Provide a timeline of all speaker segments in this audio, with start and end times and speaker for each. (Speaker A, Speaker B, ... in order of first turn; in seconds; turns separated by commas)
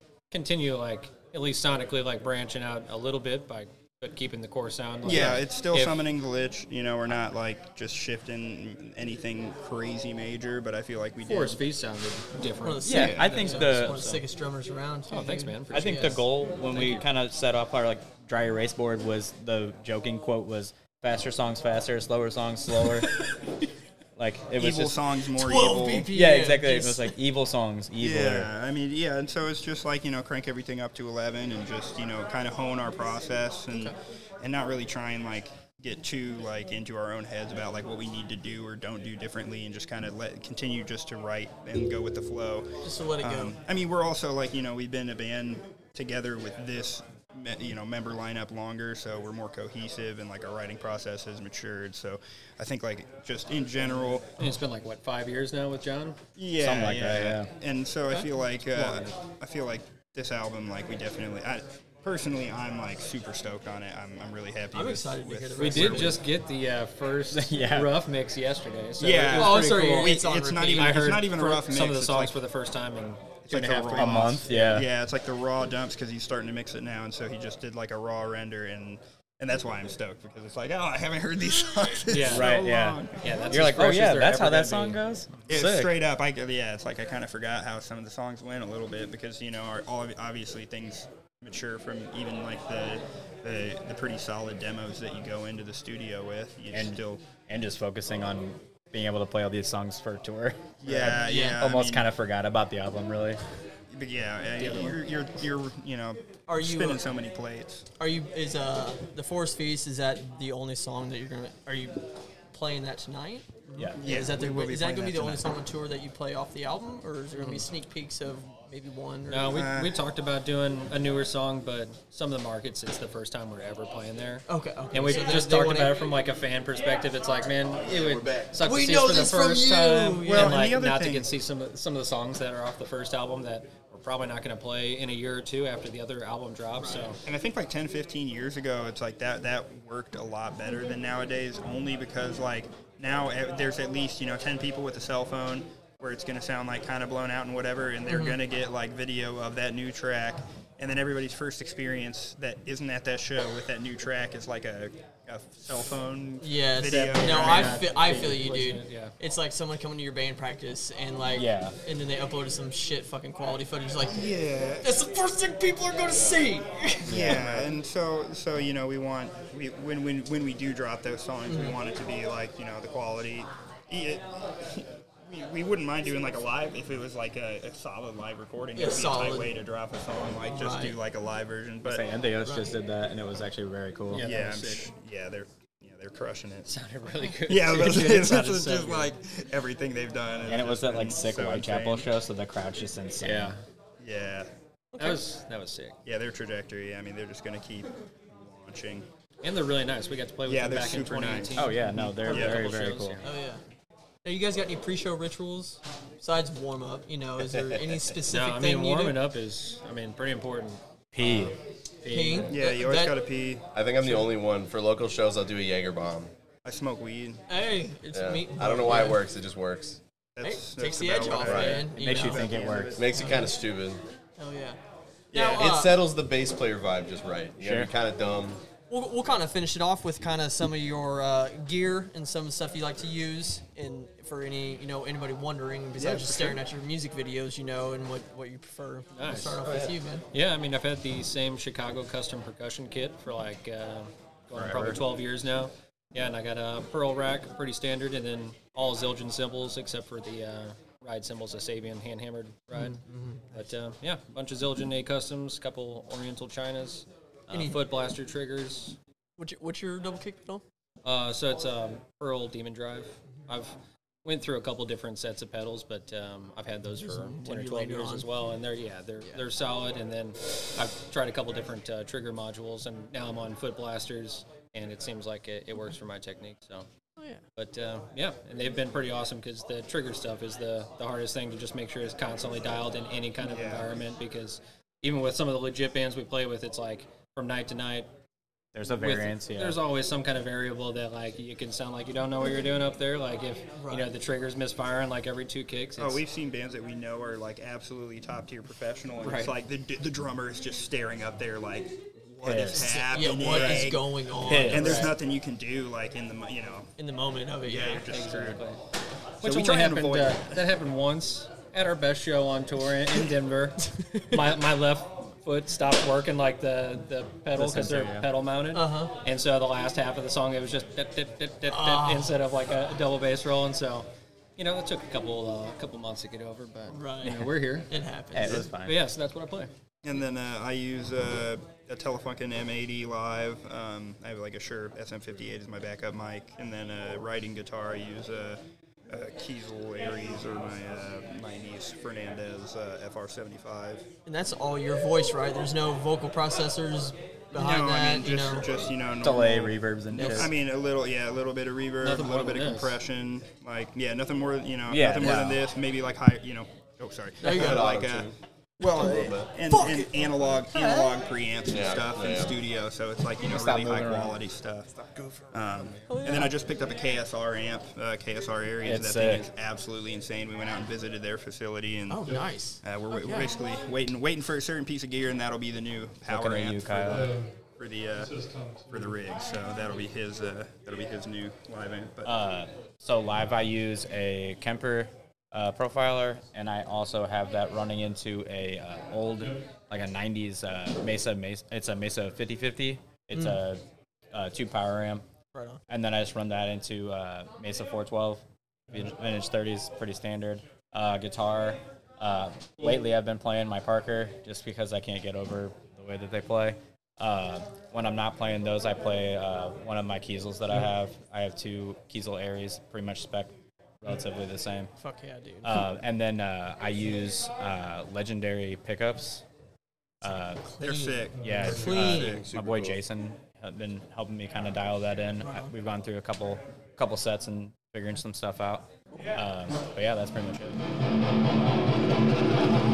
Speaker A: 0.3-6.1, Speaker B: 5.0-11.6, Speaker A: 11.2-14.2, Speaker C: 12.6-16.2, Speaker D: 12.8-14.0, Speaker A: 15.1-17.1, Speaker D: 15.7-23.1, Speaker D: 24.2-25.0, Speaker B: 24.6-26.1, Speaker C: 25.3-27.1, Speaker D: 26.1-28.5, Speaker B: 28.0-54.4, Speaker C: 33.7-34.0, Speaker C: 42.8-43.6, Speaker A: 54.4-56.2, Speaker B: 56.4-66.2, Speaker D: 56.6-57.5, Speaker C: 64.7-66.2, Speaker D: 65.6-66.0, Speaker A: 65.6-70.2, Speaker D: 67.3-67.9, Speaker B: 69.0-72.4, Speaker C: 69.3-71.0, Speaker A: 70.8-74.7, Speaker B: 73.5-83.8, Speaker D: 73.9-74.9, Speaker A: 82.1-82.6, Speaker D: 82.2-86.0, Speaker A: 83.2-85.0, Speaker B: 85.5-97.2, Speaker D: 96.7-103.4, Speaker B: 100.8-102.1, Speaker C: 101.1-101.6, Speaker B: 103.9-107.9, Speaker A: 104.6-105.0, Speaker C: 106.5-107.0, Speaker C: 108.0-113.5, Speaker D: 113.8-114.0, Speaker B: 114.0-115.4, Speaker C: 114.0-119.6, Speaker A: 117.3-117.7, Speaker A: 119.3-137.2, Speaker B: 119.5-120.0, Speaker C: 124.5-126.0, Speaker E: 127.8-128.5, Speaker C: 128.6-130.7, Speaker B: 130.3-131.3, Speaker B: 137.2-157.8, Speaker C: 148.1-148.4, Speaker C: 156.4-167.3, Speaker A: 156.9-159.1, Speaker D: 157.6-158.4, Speaker D: 161.3-161.8, Speaker B: 164.0-164.9, Speaker D: 167.1-167.8, Speaker B: 167.1-182.1, Speaker C: 171.5-171.8, Speaker C: 178.8-179.6, Speaker C: 180.5-181.0, Speaker D: 181.8-184.3, Speaker C: 182.4-182.7, Speaker A: 184.1-184.9, Speaker B: 184.2-186.7, Speaker A: 186.7-189.1, Speaker B: 187.5-192.1, Speaker D: 190.5-193.6, Speaker A: 193.2-193.6, Speaker B: 194.0-194.5, Speaker C: 194.9-195.3, Speaker A: 195.0-196.0, Speaker B: 196.0-199.1, Speaker A: 199.4-203.3, Speaker B: 200.5-202.6, Speaker D: 201.6-203.2, Speaker C: 203.2-203.6, Speaker C: 204.2-209.2, Speaker A: 208.3-212.6, Speaker D: 211.1-211.6, Speaker C: 212.1-213.2, Speaker B: 212.5-213.7, Speaker E: 213.7-216.3, Speaker B: 216.6-217.4, Speaker C: 217.5-219.2, Speaker E: 218.1-220.0, Speaker B: 220.3-223.4, Speaker C: 220.4-223.6, Speaker E: 221.3-221.9, Speaker D: 221.9-223.0, Speaker E: 222.9-224.0, Speaker C: 224.4-224.8, Speaker B: 225.3-225.6, Speaker C: 225.3-226.1, Speaker E: 225.4-228.6, Speaker D: 227.6-227.9, Speaker C: 228.9-240.2, Speaker E: 236.0-236.6, Speaker A: 239.1-239.6, Speaker E: 239.6-239.9, Speaker A: 240.3-253.0, Speaker B: 244.5-245.0, Speaker C: 253.1-253.4, Speaker A: 253.5-259.0, Speaker C: 257.5-257.8, Speaker C: 259.4-260.6, Speaker A: 261.0-276.9, Speaker C: 267.0-268.3, Speaker A: 277.6-288.1, Speaker B: 283.4-283.9, Speaker D: 288.7-289.8, Speaker A: 288.9-296.2, Speaker C: 293.8-294.1, Speaker B: 296.0-304.1, Speaker A: 299.2-299.5, Speaker D: 302.4-302.9, Speaker C: 302.7-305.1, Speaker D: 304.4-305.0, Speaker A: 304.7-305.2, Speaker B: 304.7-306.9, Speaker C: 307.0-308.1, Speaker B: 307.6-308.6, Speaker A: 308.1-308.8, Speaker B: 309.4-310.6, Speaker A: 309.4-327.9, Speaker D: 317.5-318.3, Speaker C: 318.7-319.1, Speaker C: 321.7-322.3, Speaker C: 326.9-327.4, Speaker D: 327.2-327.5, Speaker C: 327.9-328.7, Speaker D: 328.3-329.0, Speaker A: 328.4-329.7, Speaker B: 330.0-344.1, Speaker C: 344.3-348.7, Speaker B: 347.5-364.9, Speaker D: 349.2-350.5, Speaker C: 350.1-350.5, Speaker A: 352.0-353.0, Speaker D: 354.9-355.6, Speaker C: 357.4-357.9, Speaker E: 357.5-358.3, Speaker E: 358.9-359.5, Speaker C: 359.0-361.2, Speaker E: 361.7-362.6, Speaker D: 363.5-364.4, Speaker E: 365.3-365.9, Speaker B: 365.5-382.3, Speaker C: 366.1-366.5, Speaker D: 368.8-369.5, Speaker C: 372.1-373.5, Speaker D: 376.3-377.4, Speaker D: 382.2-393.8, Speaker C: 393.3-393.6, Speaker D: 394.3-395.2, Speaker C: 395.5-395.8, Speaker D: 395.9-413.5, Speaker D: 414.0-414.9, Speaker C: 415.0-415.9, Speaker D: 415.6-419.4, Speaker D: 420.2-420.6, Speaker C: 420.2-422.4, Speaker B: 420.8-422.4, Speaker D: 421.4-430.8, Speaker E: 422.2-423.0, Speaker C: 425.4-425.7